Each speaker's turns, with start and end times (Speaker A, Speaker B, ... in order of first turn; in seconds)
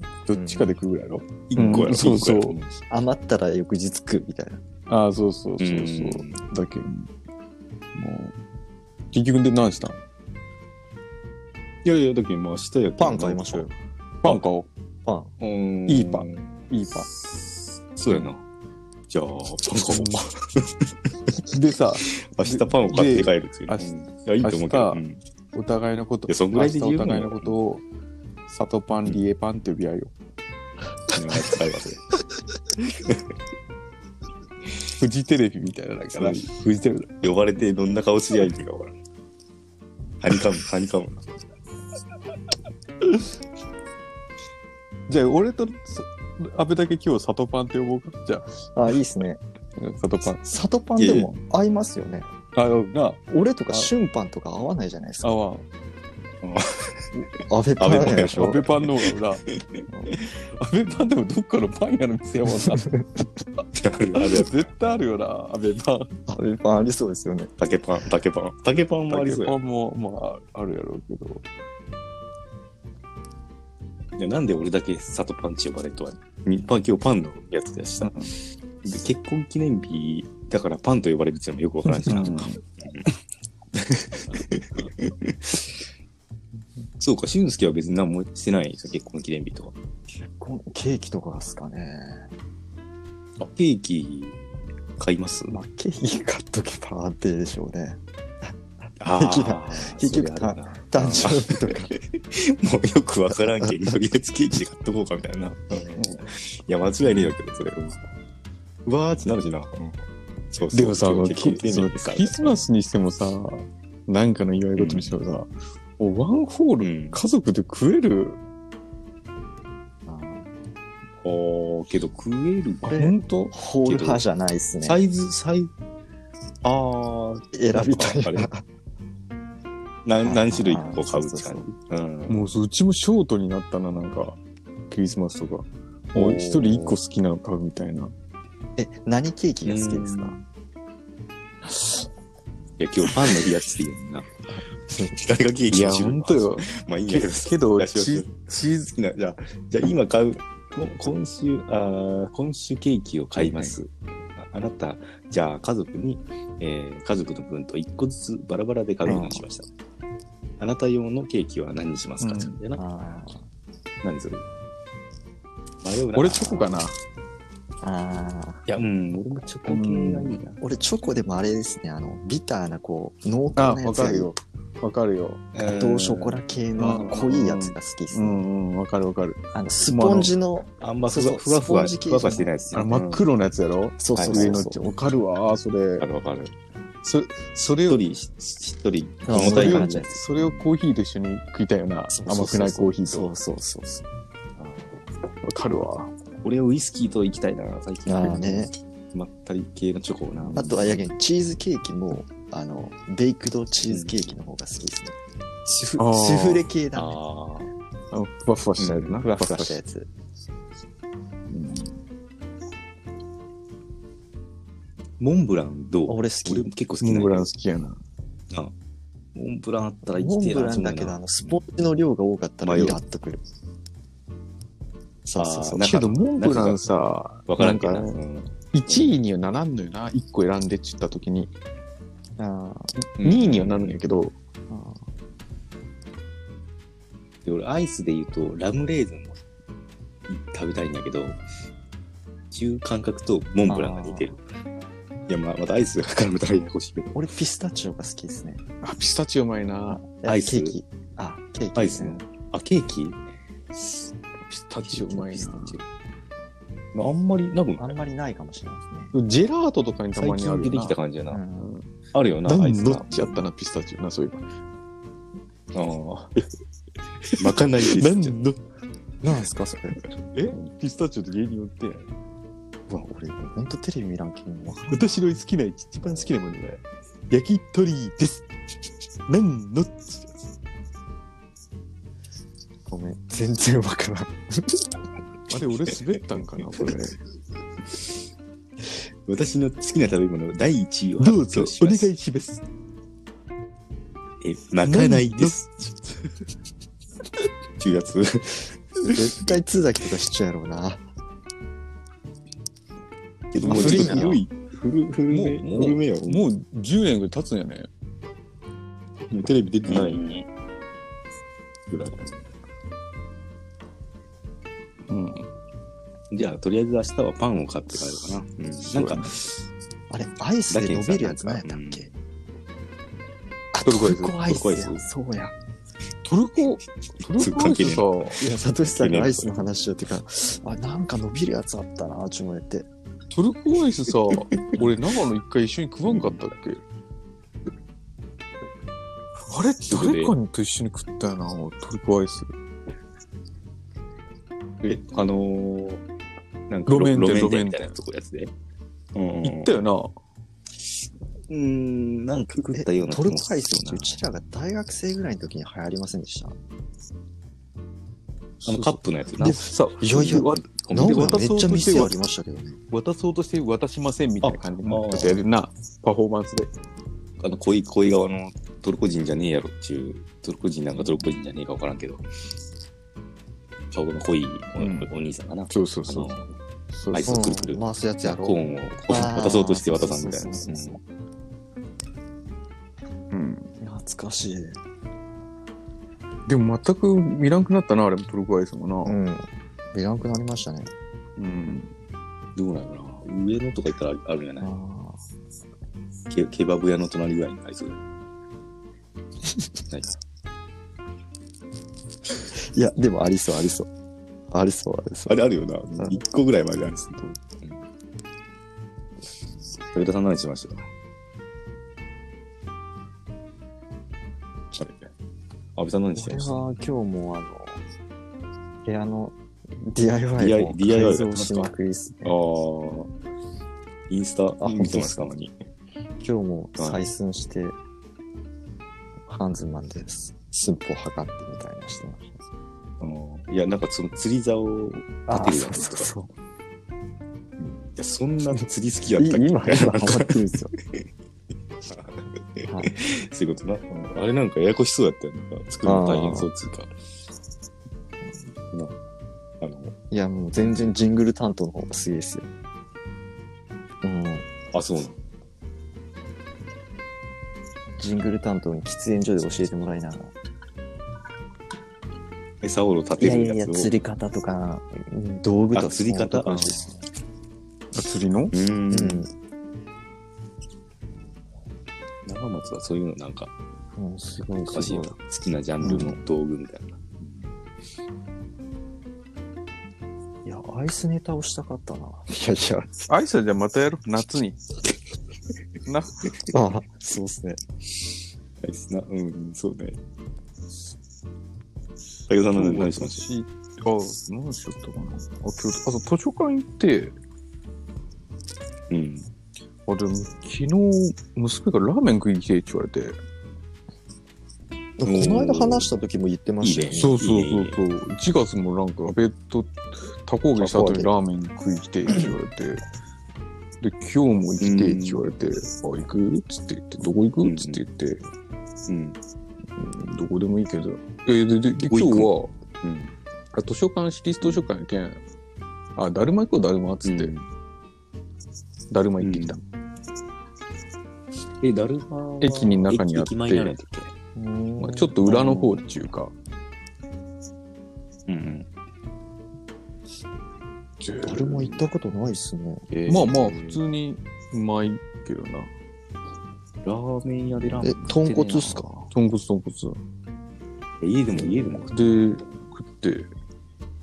Speaker A: 0.3-2.6, 4.9-7.1, 7.9-8.3, 9.1-10.0, 14.2-14.7, 15.9-17.1, 19.9-20.3, 21.5-23.9, 24.4-27.8, 28.5-30.1, 35.0-37.3, 45.1-48.6, 49.8-50.4, 52.5-53.9, 55.2-55.7, 58.3-59.4, 60.6-62.9, 64.1-66.2, 69.1-71.4, 78.0-78.3, 82.0-82.6, 110.7-118.4, 122.8-123.5, 132.3-138.1, 145.7-148.9, 162.2-162.6, 166.1-166.9, 169.7-170.4, 173.6-175.4, 176.8-180.3, 182.7-186.1, 187.0-188.0, 189.3-193.3, 195.4-196.1, 200.4-200.7, 206.0-206.7, 208.1-209.8, 211.5-211.8, 217.0-218.0, 225.8-228.2, 228.7-231.5, 233.2-234.3, 248.8-250.0, 254.4-255.8, 259.1-260.9, 261.6-261.9, 262.4-264.4, 267.2-268.6, 270.4-272.1, 274.9-278.4, 279.3-280.4, 285.5-287.2, 291.2-292.6, 294.8-295.6, 303.6-304.4, 305.3-307.9, 309.9-310.2, 315.1-315.4, 318.9-319.3, 323.8-324.4, 326.2-328.4, 333.3-336.8, 339.4-342.5, 346.9-347.9, 349.4-350.1, 358.6-362.1, 362.9-366.7, 374.8-375.1, 375.7-376.4, 376.9-377.4, 383.3-383.7, 386.5-389.1, 391.4-391.9, 467.9-468.5, 483.1-484.6, 485.9-486.3, 492.5-497.1, 499.9-503.2, 507.0-512.8, 513.8-518.2, 519.8-522.5, 523.5-525.2, 526.0-527.3, 528.9-529.6, 532.4-533.7, 534.8-536.3, 541.0-541.6, 543.1-545.7, 547.6-547.9, 549.1-550.0, 551.4-553.3
Speaker B: 0.3-0.7, 2.9-4.6, 13.0-13.7, 15.1-15.3, 48.7-49.4, 50.4-52.3, 53.3-55.3, 57.5-58.6, 66.3-67.5, 90.2-92.3, 95.5-98.5, 99.1-101.9, 120.1-120.5, 122.8-125.0, 127.5-128.6, 130.2-131.7, 138.8-140.4, 159.0-159.4, 162.8-163.4, 167.8-168.6, 170.6-174.3, 175.6-178.4, 179.5-182.6, 184.0-184.8, 189.2-190.1, 192.1-194.0, 198.1-198.7, 200.5-207.2, 209.2-210.1, 216.1-216.7, 220.1-223.4, 225.2-226.0, 232.4-232.9, 234.7-235.0, 243.7-244.3, 247.1-248.6, 250.1-252.2, 257.8-259.1, 261.3-261.7, 269.2-270.0, 272.9-275.2, 282.9-284.9, 299.1-301.0, 303.6-304.4, 320.1-322.1, 323.7-325.5, 328.4-332.9, 352.7-356.6, 359.4-362.8, 377.2-381.0, 383.8-384.8, 389.0-390.9, 394.6-395.2, 402.5-403.9, 404.5-405.4, 416.1-417.8, 418.8-422.4, 424.6-425.3, 426.2-427.8, 429.3-432.4, 435.3-436.3, 439.2-440.7, 442.6-442.9, 445.8-446.5, 450.1-452.5, 454.0-454.5, 458.0-460.3, 463.2-467.0, 468.9-469.3, 473.9-475.1, 475.8-476.2, 480.4-483.1, 486.5-487.6, 505.0-507.2, 510.6-511.1, 534.3-535.2, 541.2-542.9, 547.8-549.1
Speaker C: 1.5-2.7, 5.6-6.4, 11.8-13.6, 15.4-18.4, 19.1-21.3, 22.1-25.2, 26.3-27.5, 31.1-32.0, 32.9-33.2, 36.1-36.4, 37.2-38.9, 40.2-41.3, 51.0-51.3, 56.4-57.2, 57.8-59.8, 63.7-64.7, 67.6-69.5, 74.2-83.1, 83.7-85.7, 87.0-89.7, 93.4-94.4, 95.0-95.6, 99.0-108.0, 108.8-110.0, 110.5-112.6, 114.8-115.2, 116.8-117.2, 121.2-123.0, 123.8-124.2, 124.8-125.7, 126.6-128.5, 130.0-132.5, 136.1-137.0, 139.6-140.4, 142.8-144.3, 145.1-159.7, 160.6-162.8, 164.0-164.4, 165.8-166.7, 168.7-170.6, 175.5-177.3, 180.8-183.2, 184.1-184.6, 186.0-186.5, 187.8-190.7, 194.6-195.0, 196.4-201.0, 203.9-204.2, 206.9-207.7, 208.8-209.2, 215.2-217.5, 219.3-221.6, 222.6-223.0, 225.4-226.8, 227.4-229.1, 233.2-234.0, 237.4-239.4, 240.3-241.4, 242.5-244.4, 245.3-247.2, 250.2-250.8, 251.8-253.2, 254.8-255.8, 256.9-257.9, 260.1-261.4, 262.1-263.5, 265.7-266.4, 267.4-268.4, 289.2-292.1, 294.4-296.1, 297.8-299.5, 303.5-306.4, 309.3-310.4, 311.9-312.4, 316.3-319.5, 320.7-322.1, 324.5-325.0, 327.4-329.5, 334.5-334.9, 339.9-340.3, 344.9-346.0, 346.7-348.5, 349.1-349.8, 351.5-354.2, 358.6-359.6, 360.1-361.5, 364.4-365.4, 367.4-372.2, 373.9-376.5, 377.1-381.0, 392.6-394.7, 396.3-398.0, 399.9-400.1, 405.3-407.8, 409.9-410.9, 414.7-415.1, 415.8-416.6, 420.4-421.7, 422.2-423.1, 424.1-425.5, 426.8-427.0, 433.0-436.1, 437.6-441.0, 441.9-446.9, 448.7-448.9, 449.6-449.9, 450.6-450.9, 454.7-455.2, 462.6-463.9, 465.7-466.8, 468.5-469.2, 472.2-473.5, 474.7-477.5, 488.6-490.0, 492.3-493.3, 498.9-499.3, 505.1-505.9, 506.6-507.8, 514.6-515.2, 517.4-517.8, 518.9-519.2, 521.8-523.1, 524.4-524.7, 527.0-527.5, 529.2-529.6, 531.6-534.1, 535.2-535.8, 538.3-538.7, 542.9-543.8, 546.8-548.8, 551.0-552.2